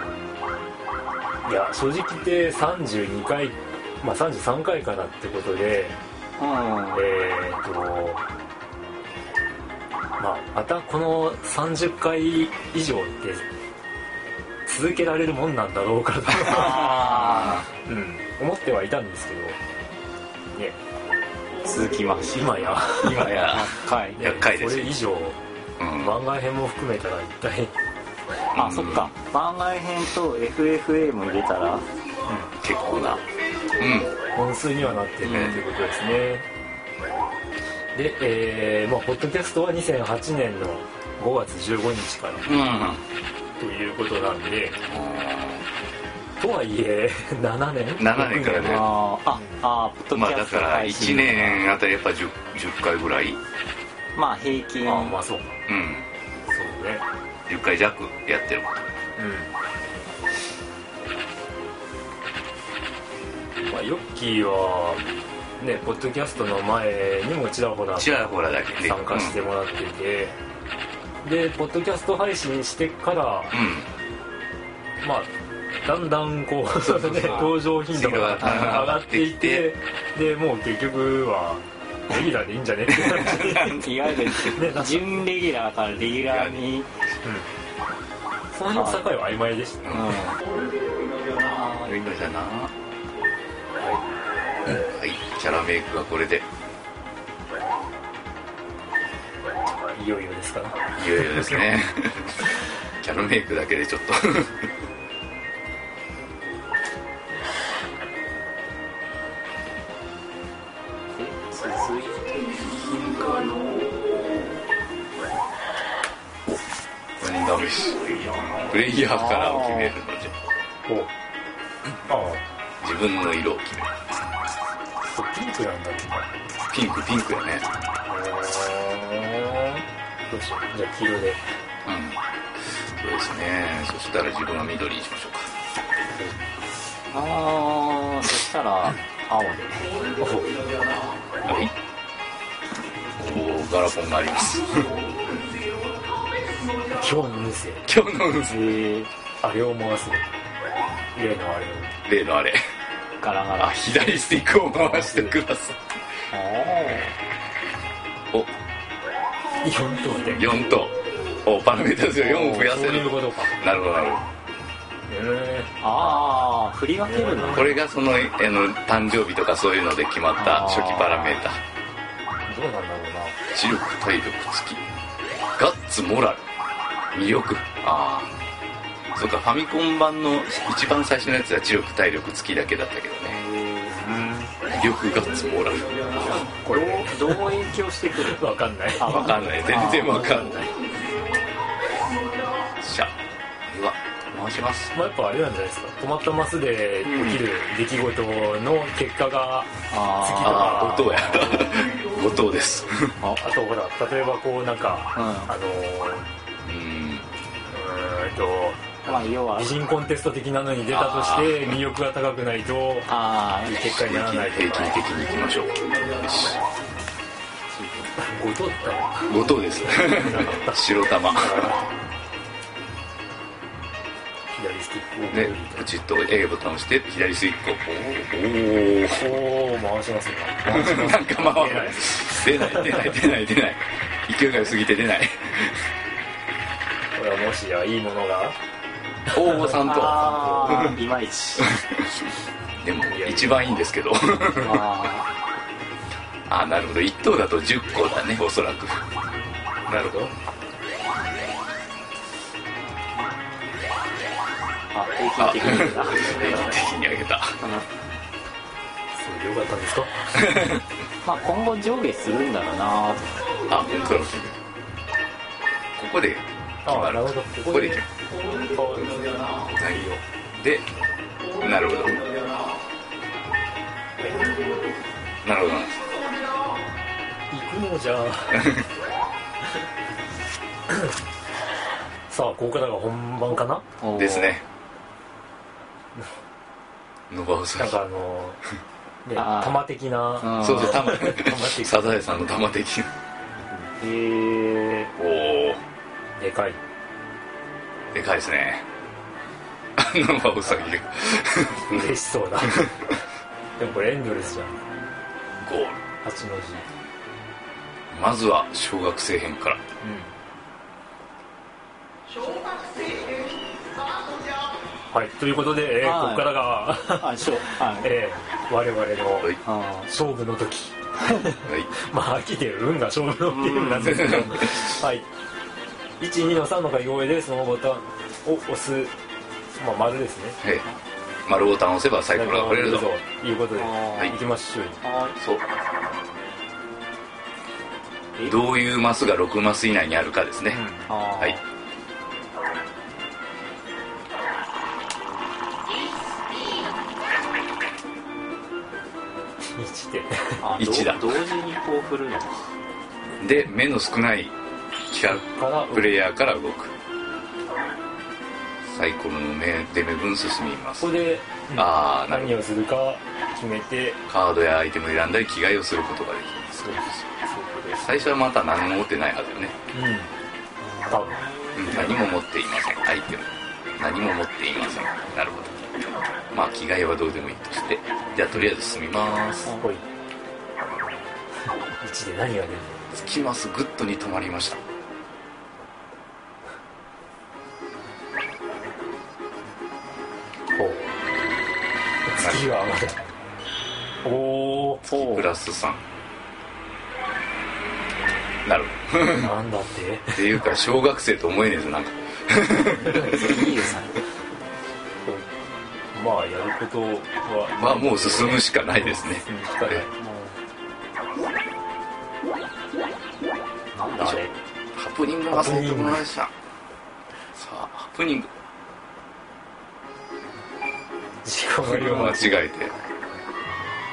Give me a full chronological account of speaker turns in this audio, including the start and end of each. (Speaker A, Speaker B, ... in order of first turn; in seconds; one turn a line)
Speaker A: 1.4-6.0
Speaker B: 6.4-7.0
Speaker A: 6.9-8.2
Speaker A: 10.2-13.4
Speaker A: 14.7-19.6
Speaker B: 16.4-17.6
Speaker C: 16.9-17.6
Speaker B: 21.6-24.2
Speaker A: 22.3-23.5
Speaker C: 23.0-24.9
Speaker A: 24.2-25.4
Speaker C: 25.8-26.2
Speaker A: 26.0-27.7
Speaker C: 28.5-29.1
Speaker B: 28.6-31.9
Speaker C: 32.6-33.2
Speaker C: 33.8-34.2
Speaker A: 34.3-36.5
Speaker C: 35.2-35.6
Speaker A: 38.0-42.6
Speaker C: 42.5-43.0
Speaker A: 43.6-44.8
Speaker C: 44.8-45.7
Speaker A: 46.4-49.6
Speaker C: 48.0-48.9
Speaker B: 48.6-51.6
Speaker C: 50.1-53.4
Speaker B: 54.1-55.2
Speaker A: 54.8-55.6
Speaker C: 55.7-56.1
Speaker A: 56.5-57.0
Speaker C: 57.5-58.9
Speaker A: 59.2-59.5
Speaker A: 63.6-65.0
Speaker A: 65.6-68.2
Speaker C: 68.0-69.4
Speaker A: 68.8-70.4
Speaker A: 71.2-73.6
Speaker C: 73.5-73.9
Speaker A: 75.0-75.3
Speaker A: 75.8-85.3
Speaker C: 76.9-77.4
Speaker B: 77.2-77.5
Speaker C: 77.9-79.7
Speaker B: 78.5-78.8
Speaker C: 82.9-83.6
Speaker B: 83.5-86.9
Speaker C: 86.1-86.7
Speaker A: 88.5-90.2
Speaker B: 88.7-89.0
Speaker C: 89.8-90.2
Speaker B: 89.9-90.4
Speaker B: 91.4-92.3
Speaker C: 91.9-92.7
Speaker C: 94.7-96.5
Speaker A: 99.9-101.6
Speaker C: 101.0-102.5
Speaker C: 103.0-104.7
Speaker B: 111.2-113.9
Speaker C: 117.2-118.0
Speaker C: 118.7-120.3
Speaker B: 119.0-120.0
Speaker A: 122.1-122.4
Speaker C: 122.8-123.9
Speaker A: 125.1-126.3
Speaker C: 126.7-127.7
Speaker A: 128.1-131.4
Speaker C: 131.8-135.5
Speaker B: 137.1-140.0
Speaker A: 140.2-140.6
Speaker C: 141.4-141.7
Speaker C: 143.2-145.0
Speaker A: 146.9-147.8
Speaker C: 147.9-148.7
Speaker B: 148.5-149.1
Speaker A: 149.4-150.3
Speaker A: 151.2-152.0
Speaker C: 152.1-152.6
Speaker B: 153.2-154.2
Speaker C: 153.6-155.8
Speaker A: 154.6-155.4
Speaker B: 156.3-157.2
Speaker A: 159.6-160.6
Speaker C: 160.3-164.2
Speaker B: 162.2-162.7
Speaker A: 162.4-163.5
Speaker A: 165.1-166.3
Speaker B: 165.8-167.8
Speaker A: 167.0-167.8
Speaker C: 167.6-171.6
Speaker B: 170.4-171.4
Speaker A: 172.5-173.4
Speaker C: 173.5-174.8
Speaker C: 175.6-176.4
Speaker C: 177.1-178.3
Speaker C: 179.2-183.4
Speaker B: 183.3-184.0
Speaker A: 183.9-184.6
Speaker C: 184.7-186.3
Speaker A: 186.3-187.6
Speaker B: 186.5-188.4
Speaker A: 188.2-189.5
Speaker B: 189.0-190.6
Speaker C: 189.1-190.8
Speaker C: 192.8-193.2
Speaker C: 193.7-194.9
Speaker A: 194.9-201.5
Speaker B: 197.0-197.4
Speaker B: 199.9-201.7
Speaker C: 200.4-203.2
Speaker A: 203.4-206.3
Speaker B: 205.2-205.5
Speaker C: 206.6-207.3
Speaker A: 207.7-213.1
Speaker B: 209.1-209.7
Speaker C: 210.9-211.7
Speaker B: 213.1-213.8
Speaker A: 213.7-215.0
Speaker C: 213.8-216.6
Speaker B: 217.7-218.1
Speaker A: 218.2-221.9
Speaker C: 219.3-221.7
Speaker A: 224.5-225.8
Speaker C: 225.3-229.3
Speaker A: 229.2-233.2
Speaker C: 230.7-235.9
Speaker A: 237.2-238.6
Speaker C: 239.3-241.0
Speaker A: 239.3-240.9
Speaker B: 239.8-241.8
Speaker C: 241.6-242.1
Speaker C: 242.8-244.8
Speaker A: 243.1-243.7
Speaker B: 244.6-245.3
Speaker C: 246.5-249.0
Speaker C: 249.9-250.3
Speaker B: 254.9-256.8
Speaker C: 255.4-257.6
Speaker A: 259.2-260.6
Speaker C: 260.4-260.8
Speaker B: 261.2-263.5
Speaker C: 263.7-264.6
Speaker C: 266.0-268.1
Speaker A: 266.9-268.0
Speaker A: 268.7-269.3
Speaker C: 269.0-270.9
Speaker C: 271.6-272.3
Speaker A: 274.2-274.6
Speaker C: 275.4-276.0
Speaker A: 277.5-278.8
Speaker A: 282.3-283.8
Speaker B: 284.0-284.6
Speaker C: 284.1-284.6
Speaker C: 287.3-288.0
Speaker A: 287.8-288.6
Speaker A: 289.2-292.5
Speaker B: 289.4-289.8
Speaker B: 290.4-291.0
Speaker C: 290.6-293.1
Speaker B: 293.7-295.1
Speaker C: 295.2-295.8
Speaker A: 296.4-296.8
Speaker C: 298.1-298.8
Speaker C: 300.0-302.1
Speaker A: 301.8-303.2
Speaker A: 303.8-304.8
Speaker C: 305.6-306.0
Speaker A: 306.2-306.9
Speaker C: 308.1-309.8
Speaker A: 310.0-310.3
Speaker A: 315.1-319.6
Speaker B: 316.0-316.6
Speaker B: 317.1-318.1
Speaker B: 319.6-320.1
Speaker A: 320.1-325.3
Speaker C: 321.6-321.9
Speaker B: 323.5-324.4
Speaker C: 324.0-324.9
Speaker A: 326.2-329.1
Speaker A: 329.8-330.6
Speaker C: 331.5-333.1
Speaker A: 332.3-335.0
Speaker B: 333.8-334.3
Speaker B: 335.0-335.4
Speaker C: 335.4-335.6
Speaker C: 338.4-340.8
Speaker A: 340.7-341.1
Speaker B: 341.1-341.6
Speaker A: 349.6-350.6
Speaker B: 350.6-352.7
Speaker C: 350.8-351.3
Speaker C: 353.4-354.5
Speaker C: 355.1-356.9
Speaker A: 355.3-356.2
Speaker C: 358.9-361.1
Speaker A: 361.0-364.2
Speaker C: 361.8-362.6
Speaker C: 364.3-367.2
Speaker A: 366.7-368.0
Speaker C: 368.0-369.8
Speaker A: 369.9-370.3
Speaker B: 371.1-371.8
Speaker A: 371.1-371.4
Speaker C: 371.8-375.8
Speaker C: 376.5-379.7
Speaker A: 379.8-380.0
Speaker A: 382.0-383.1
Speaker C: 383.1-384.8
Speaker A: 390.8-391.1
Speaker A: 392.3-393.2
Speaker A: 394.2-395.0
Speaker C: 395.0-396.0
Speaker B: 395.1-395.5
Speaker C: 398.6-399.5
Speaker A: 399.3-400.6
Speaker C: 400.3-403.4
Speaker A: 403.0-403.5
Speaker B: 403.1-404.2
Speaker A: 406.1-410.1
Speaker C: 407.8-410.0
Speaker B: 410.2-410.6
Speaker B: 413.9-414.5
Speaker C: 414.9-416.5
Speaker A: 415.5-416.2
Speaker C: 417.5-418.5
Speaker A: 421.4-422.6
Speaker C: 421.8-422.9